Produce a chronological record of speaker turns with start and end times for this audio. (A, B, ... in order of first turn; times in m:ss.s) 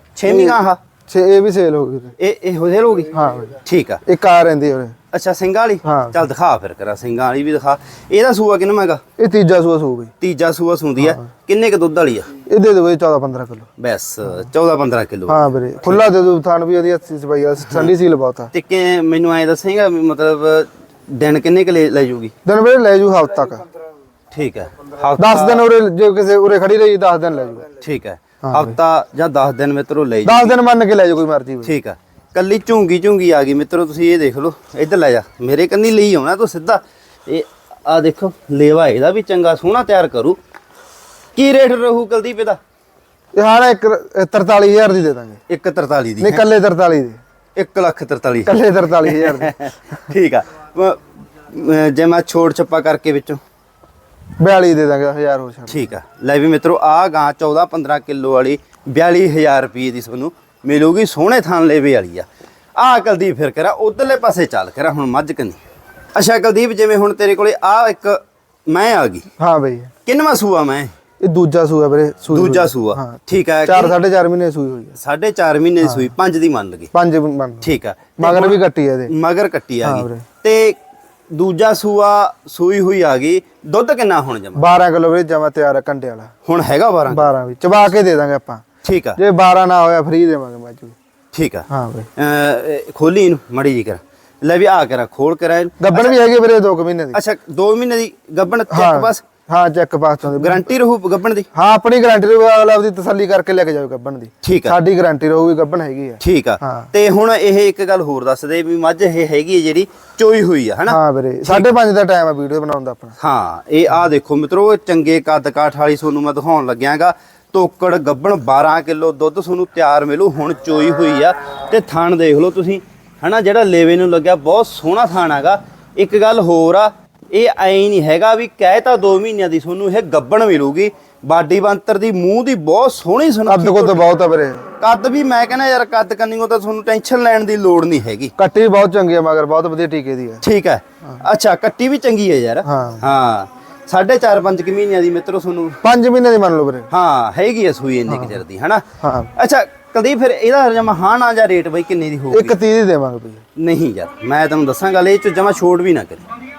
0:00.2-0:00.8 A
0:00.2-0:02.1 B
0:02.2-0:04.0 A
0:03.1-0:04.9 B
0:05.1-0:09.0 A
0:05.8-0:06.2 B
0:09.2-0:10.1 B
0:10.2-0:12.3 A
0:12.5-0:13.7 B
0:13.8-0:16.0 A
0:15.3-0:18.5 B
0:18.5-0:22.3 A
0:22.4-0:23.6 B
0:24.3-0:25.6 A
0:25.2-0:27.7 B
0:27.8-0:30.5 A
0:28.4-0:28.8 B
0:30.2-0:31.7 B
0:31.6-0:40.4 A
0:41.4-0:42.6 A
0:43.3-0:45.4 B
0:45.5-0:46.4 A
0:46.2-0:47.2 B
0:47.6-0:53.4 A
0:48.4-0:49.5 B
0:54.4-0:55.9 B
0:55.7-1:02.2 A
1:02.8-1:05.6 A
1:06.1-1:09.3 A
1:09.4-1:09.9 B
1:10.0-1:10.9 A
1:11.2-1:15.0 B
1:12.3-1:13.9 A
1:15.0-1:16.9 A
1:15.8-1:16.1 B
1:16.9-1:19.1 B
1:17.6-1:20.8 A
1:19.8-1:20.2 B
1:21.3-1:24.6 A
1:24.5-1:26.3 B
1:26.4-1:27.3 A
1:27.1-1:28.6 B
1:28.8-1:29.2 A
1:29.2-1:31.0 B
1:31.3-1:36.1 A
1:31.7-1:32.1 B
1:35.8-1:37.2 B
1:37.1-1:39.2 A
1:38.7-1:40.7 B
1:40.3-1:41.5 A
1:41.5-1:46.9 B
1:44.4-1:44.8 A
1:46.2-1:51.7 A
1:50.9-1:53.1 B
1:53.2-2:14.0 A
2:13.5-2:14.6 B
2:14.8-2:18.3 A
2:18.4-2:20.4 B
2:20.4-2:25.8 A
2:22.6-2:23.1 B
2:25.8-2:26.9 B
2:26.9-2:28.8 A
2:28.1-2:28.4 B
2:29.0-2:29.3 B
2:29.4-2:32.6 A
2:32.3-2:33.4 B
2:33.6-2:36.2 A